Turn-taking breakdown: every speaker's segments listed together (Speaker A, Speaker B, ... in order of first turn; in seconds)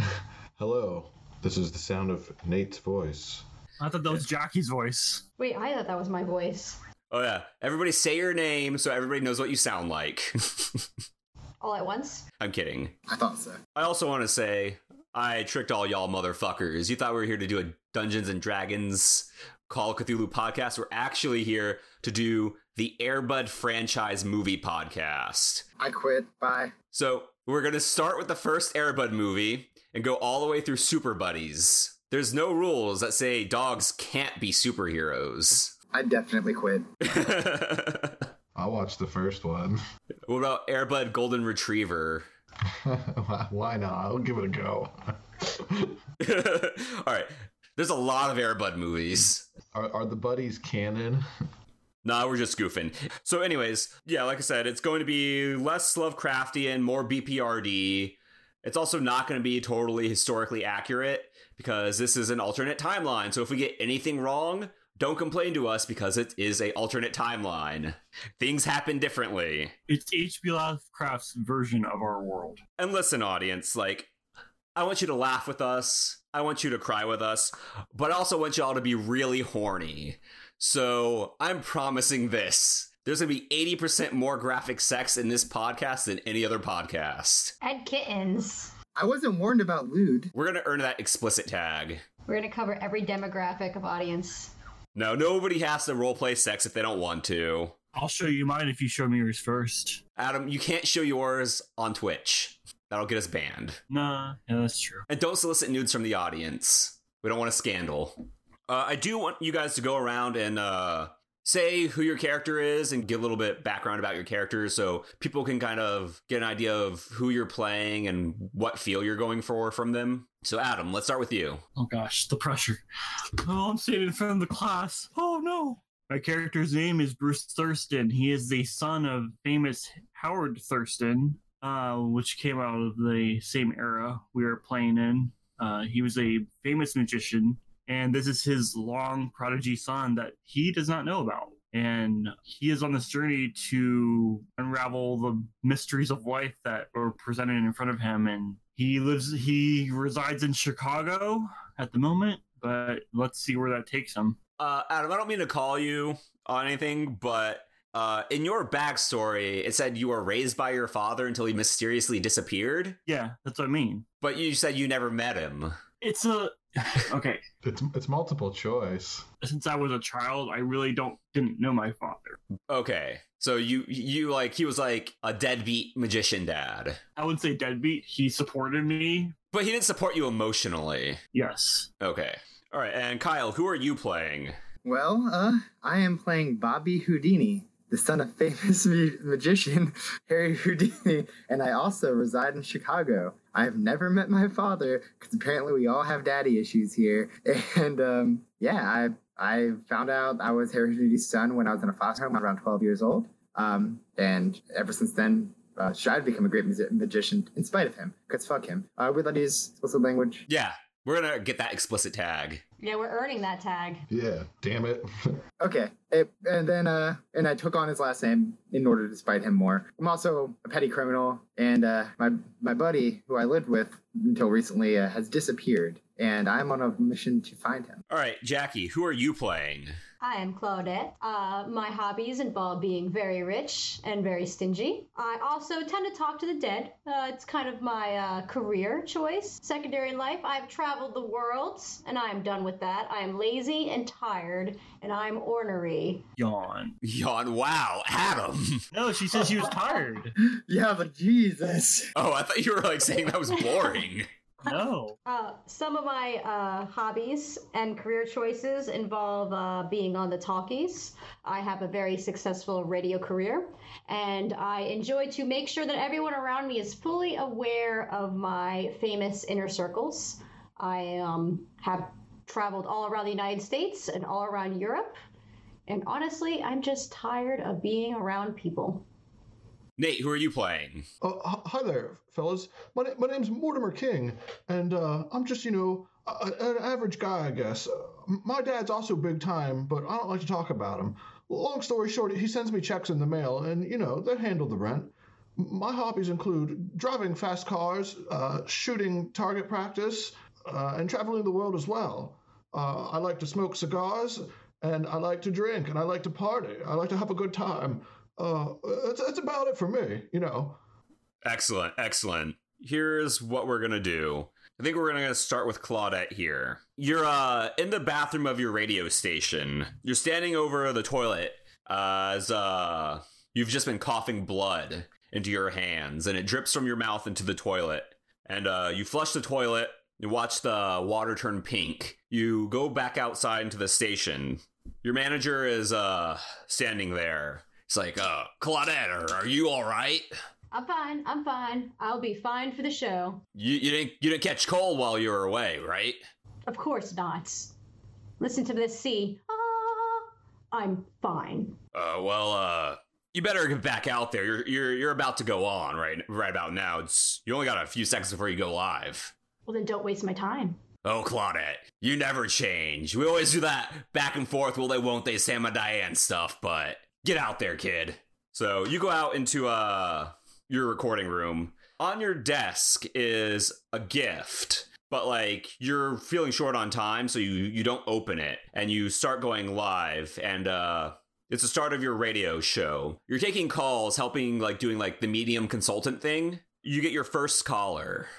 Speaker A: 0.6-3.4, 38.5-39.8, 42.6-46.0, 49.7-51.2, 167.6-169.2, 214.1-215.3, 281.2-310.8
Speaker B: 3.8-5.2, 69.9-72.6, 97.9-100.0, 103.9-105.1, 121.8-122.8, 123.4-154.4, 163.1-164.1, 166.0-167.4, 169.4-172.4, 177.2-179.3, 181.3-181.9, 246.4-247.0, 248.9-250.3, 254.6-255.2
Speaker C: 5.4-6.8, 11.6-12.2, 87.6-88.7, 92.3-94.5, 212.8-214.1, 230.2-246.2, 255.2-275.2, 275.9-279.0, 340.7-343.4, 346.7-347.7, 348.4-351.8, 359.6-360.8
Speaker D: 7.1-10.8, 12.4-12.9, 13.7-25.6, 26.9-35.7, 37.0-38.2, 40.3-42.2, 46.2-49.5, 52.0-69.7, 72.8-74.1, 74.8-87.5, 90.3-92.0, 94.9-97.7, 100.2-103.8, 105.1-108.2, 108.7-121.6, 154.6-163.0, 164.2-165.8, 172.7-177.0, 179.5-181.2, 182.0-184.6, 210.5-212.6, 228.1-229.9, 247.0-248.9, 252.1-254.3, 280.0-281.1, 311.4-340.3, 343.5-346.2, 351.9-359.3, 361.0-388.3
Speaker E: 13.1-13.6, 25.8-26.7, 35.9-36.9, 88.9-90.3, 184.8-210.4, 215.6-228.0, 250.4-252.1